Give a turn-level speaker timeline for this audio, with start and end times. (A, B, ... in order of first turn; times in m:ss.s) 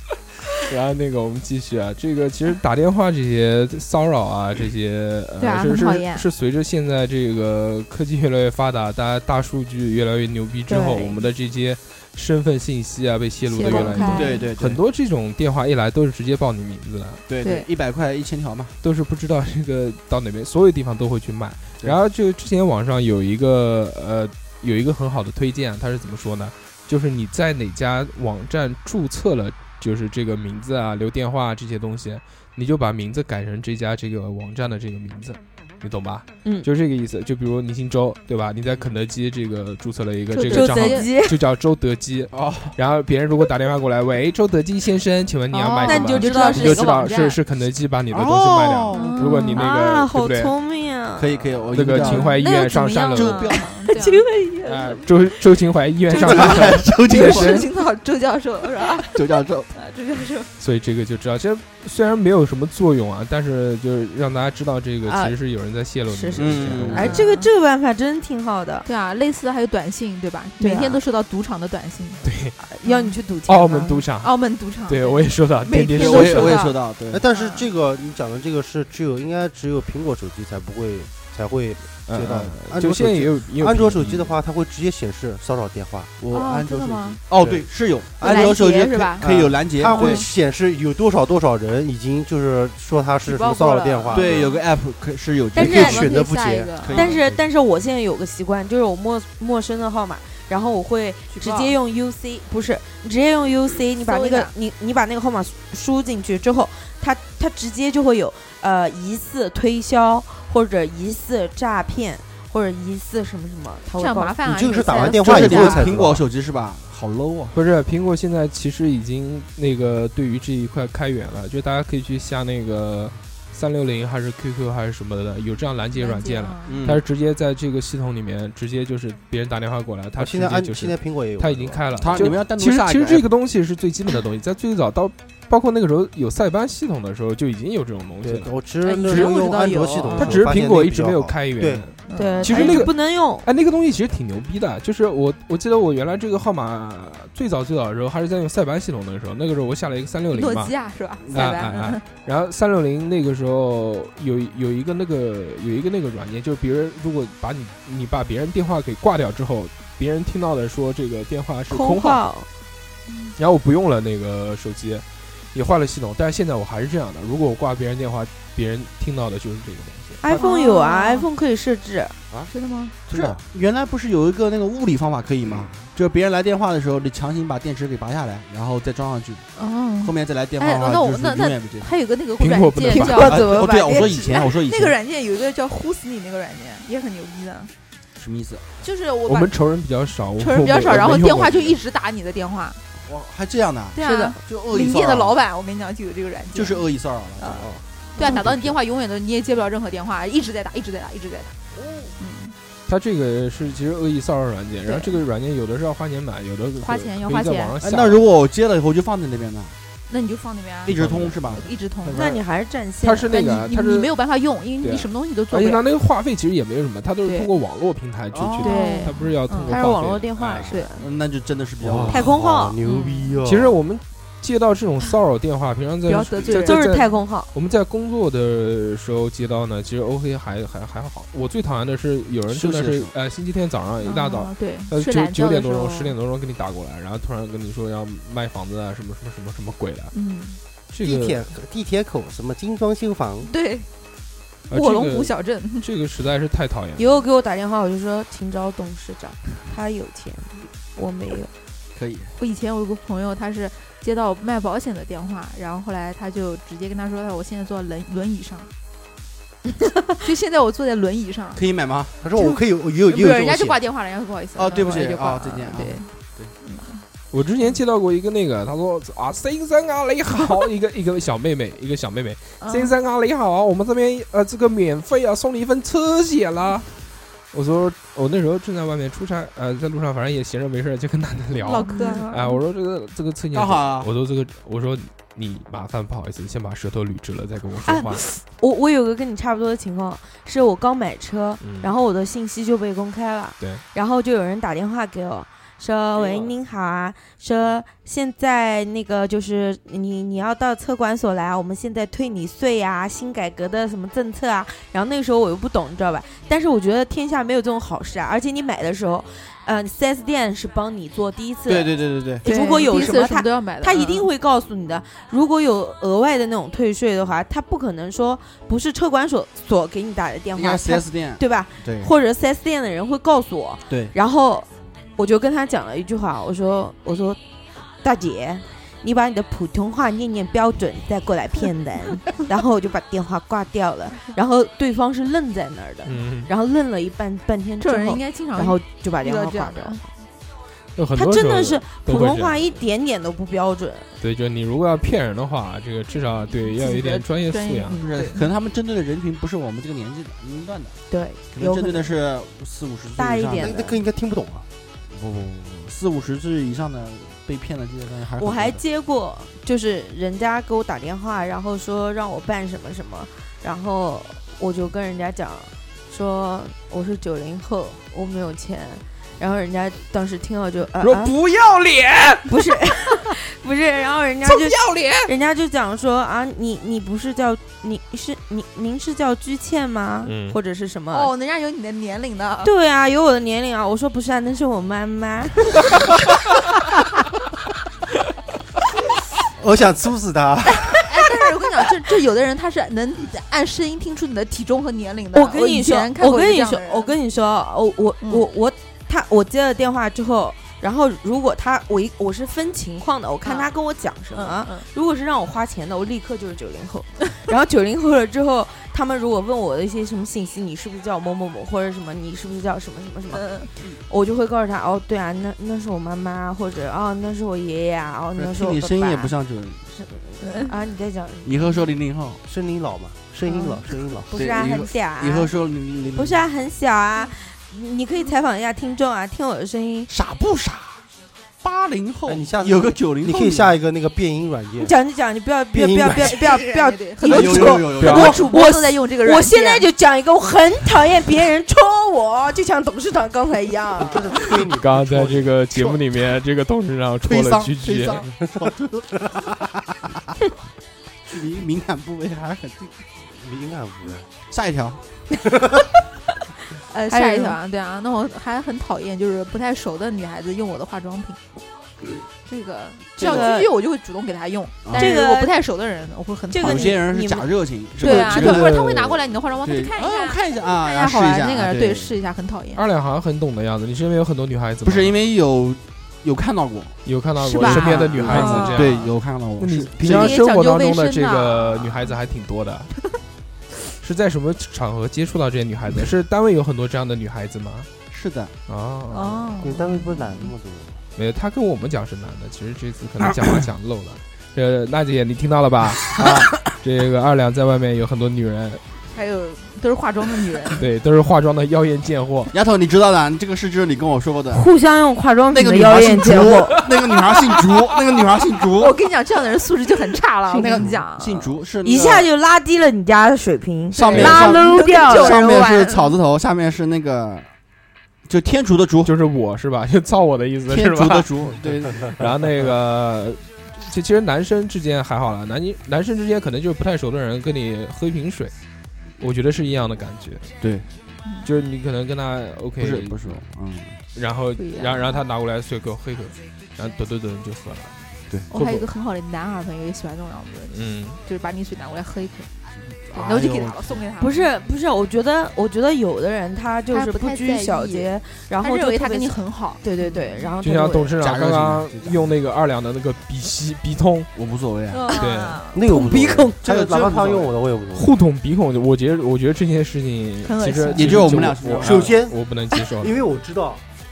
0:00.6-0:17.2 A
0:05.4-0:06.3 B
0:10.7-0:11.2 C
0:13.5-0:14.5 B
0:13.7-0:14.8 D
0:13.7-0:14.2 C
0:17.3-0:18.8 D
0:17.4-0:17.7 B
0:18.8-0:50.5 A
0:40.3-0:41.1 B
0:40.5-0:41.4 C
0:42.3-0:42.8 D
0:45.5-0:47.4 B
0:45.8-0:47.0 C
0:48.1-0:49.2 D
0:48.9-0:49.7 B
0:49.5-0:51.6 C
0:51.2-0:52.3 D
0:51.7-0:53.5 A
0:51.9-0:54.3 B
0:53.1-0:53.6 D
0:53.6-0:55.1 C
0:54.6-0:57.7 A
0:56.1-0:57.6 D
0:56.1-0:59.1 B
0:59.1-0:59.7 D
0:59.7-1:00.5 B
1:00.6-1:07.2 A
1:05.0-1:05.3 C
1:06.1-1:08.9 C
1:06.3-1:07.2 D
1:06.9-1:07.5 B
1:08.8-1:12.2 B
1:10.6-1:11.0 C
1:12.2-1:12.5 A
1:12.6-1:14.0 C
1:12.8-1:13.2 B
1:13.5-1:14.3 A
1:14.2-1:16.8 B
1:14.9-1:16.6 A
1:16.0-1:17.2 D
1:17.1-1:26.1 E
1:17.3-1:17.6 B
1:22.1-1:24.4 A
1:26.2-1:30.2 D
1:26.3-1:27.2 B
1:27.3-1:27.7 E
1:28.2-1:28.6 E
1:28.2-1:30.2 B
1:29.2-1:34.5 E
1:33.2-1:34.6 B
1:34.1-1:36.2 D
1:35.5-1:37.4 E
1:35.6-1:35.9 C
1:35.6-1:37.2 B
1:36.8-1:37.2 D
1:36.9-1:54.4 C
1:41.3-1:41.7 B
1:44.0-1:44.5 B
1:53.9-1:55.9 B
1:54.4-1:56.2 E
1:55.2-1:57.6 D
1:57.5-2:18.5 A
2:05.9-2:06.8 B
2:06.7-2:07.0 D
2:10.2-2:12.3 E
2:12.0-2:13.2 D
2:18.2-2:21.8 E
2:18.8-2:20.5 B
2:19.1-2:19.4 A
2:20.2-2:30.7 A
2:22.1-2:22.9 B
2:22.1-2:23.4 C
2:30.3-2:32.0 B
2:31.3-2:42.2 A
2:41.7-2:42.5 C
2:43.1-2:43.3 B
2:43.4-2:50.4 A
2:50.2-2:52.2 C
2:50.3-2:51.3 B
2:52.5-2:53.0 B
2:53.1-2:59.5 D
2:53.1-2:53.4 E
2:59.6-3:07.7 B
3:00.0-3:01.9 D
3:02.4-3:03.4 A
3:02.9-3:04.2 C
3:03.2-3:05.0 D
3:08.2-3:08.6 D
3:08.8-3:09.5 B
3:09.2-3:11.8 A
3:10.4-3:12.8 B
3:13.0-3:15.4 D
3:13.9-3:16.8 B
3:14.0-3:14.4 C
3:16.5-3:18.8 D
3:17.4-3:21.6 B
3:22.2-3:22.5 B
3:22.9-3:28.2 A
3:24.8-3:25.2 B
3:26.8-3:27.8 B
3:27.8-3:29.8 D
3:30.1-3:30.9 B
3:30.8-3:31.7 D
3:30.9-3:31.4 A
3:31.4-3:32.3 B
3:32.1-3:33.3 C
3:33.0-3:34.1 A
3:33.3-3:35.8 B
3:34.8-3:40.7 A
3:37.2-3:37.5 B
3:38.3-3:38.6 D
3:38.5-3:39.8 B
3:38.6-3:39.1 C
3:39.6-3:41.0 C
3:40.6-3:42.3 D
3:41.8-3:43.8 E
3:42.1-3:42.8 C
3:42.8-3:43.4 B
3:43.4-4:00.1 A
3:46.0-3:47.0 B
3:46.5-3:47.5 C
3:52.5-3:53.1 D
3:54.0-3:56.2 B
4:00.1-4:00.6 B
4:00.9-4:01.5 A
4:01.0-4:03.5 E
4:03.4-4:03.9 B
4:04.7-4:05.9 B
4:04.7-4:07.2 A
4:07.0-4:11.5 C
4:11.9-4:12.3 D
4:12.4-4:18.7 B
4:20.2-4:21.6 B
4:21.5-4:22.2 D
4:22.2-4:23.8 E
4:23.1-4:26.1 B
4:24.5-4:26.5 D
4:26.6-4:27.0 B
4:27.3-4:36.9 A
4:32.6-4:32.9 B
4:37.5-4:48.2 A
4:41.6-4:42.6 B
4:41.9-4:42.2 C
4:43.5-4:44.1 D
4:47.8-5:27.4 C
4:51.6-4:51.9 A
5:11.7-5:12.4 D
5:12.4-5:14.3 B
5:20.5-5:22.1 D
5:23.9-5:24.1 D
5:28.0-5:40.0 C
5:36.0-5:36.5 A
5:37.8-5:40.0 B
5:41.0-5:42.8 A
5:41.1-5:44.1 C
5:44.2-5:48.0 A
5:46.7-5:48.4 B
5:48.0-5:51.0 D
5:51.1-5:52.1 C
5:51.5-5:53.9 D
5:53.2-5:53.9 C
5:53.6-5:54.7 E
5:55.1-5:58.8 D
5:58.4-6:11.3 C
6:11.0-6:12.5 A
6:12.5-6:21.3 C
6:14.7-6:15.2 A
6:14.8-6:15.1 B
6:20.2-6:20.6 A
6:21.1-6:22.7 B
6:22.6-6:25.8 C
6:29.6-6:31.1 E
6:30.7-6:37.1 B
6:35.3-6:59.3 C
6:38.2-6:38.5 B
6:44.3-6:44.9 B
6:53.3-6:53.7 B
6:58.4-6:59.8 D
6:59.9-7:01.7 C
7:00.4-7:00.7 B
7:01.4-7:02.4 D
7:02.4-7:04.3 E
7:03.5-7:03.8 B
7:04.3-7:05.5 C
7:04.3-7:06.4 D
7:06.1-7:10.1 C
7:10.1-7:11.0 D
7:11.6-7:13.7 D
7:12.2-7:14.9 E
7:14.8-7:24.2 C
7:15.7-7:16.3 E
7:16.2-7:19.8 B
7:17.2-7:18.5 D
7:18.0-7:18.4 A
7:24.0-7:25.5 E
7:24.8-7:28.3 A
7:27.2-7:28.8 D
7:28.5-7:29.4 E
7:31.3-7:32.9 D
7:33.3-7:34.3 E
7:34.5-7:35.0 D
7:36.9-7:41.4 B
7:37.1-7:37.6 C
7:42.4-7:47.0 B
7:43.2-7:43.7 C
7:43.2-7:43.5 D
7:44.8-7:45.2 D
7:45.0-7:45.6 C
7:46.5-7:47.5 C
7:46.6-7:48.8 D
7:48.0-7:52.8 B
7:48.0-7:49.2 A
7:49.6-7:52.2 D
7:52.7-7:55.2 A
7:54.8-7:57.0 D
7:57.0-8:02.9 A
7:57.4-7:59.1 B
7:57.6-8:00.4 D
8:00.0-8:02.2 B
8:04.0-8:07.9 A
8:08.1-8:08.5 D
8:08.7-8:09.5 A
8:09.1-8:10.4 B
8:09.6-8:11.0 E
8:11.2-8:18.8 A
8:19.1-8:20.8 B
8:20.7-8:22.5 A
8:22.5-8:24.7 D
8:24.5-8:26.8 C
8:25.5-8:29.0 D
8:27.0-8:27.7 A
8:28.7-8:31.5 B
8:30.5-8:30.8 C
8:30.5-8:32.3 D
8:31.8-8:35.6 C
8:33.9-8:37.5 D
8:33.9-8:36.2 B
8:38.2-8:39.1 D
8:39.0-8:41.3 A
8:40.7-8:42.2 D
8:42.0-8:48.5 A
8:49.2-8:50.5 A
8:50.6-8:50.9 D
8:51.4-8:53.4 A
8:52.8-8:54.0 D
8:54.1-8:57.9 A
8:54.6-8:55.2 B
8:58.5-9:02.5 B
8:58.5-8:58.9 A
9:00.7-9:01.2 A
9:03.1-9:04.0 D
9:03.1-9:04.5 B
9:04.2-9:11.1 C
9:06.9-9:10.5 B
9:10.6-9:14.3 A
9:11.2-9:12.3 D
9:14.3-9:15.1 D
9:14.9-9:15.8 B
9:15.1-9:15.6 A
9:15.7-9:18.1 E
9:15.9-9:16.5 C
9:16.6-9:17.5 D
9:17.9-9:23.2 A
9:20.4-9:21.4 B
9:20.9-9:22.1 D
9:21.8-9:22.4 E
9:23.0-9:23.8 E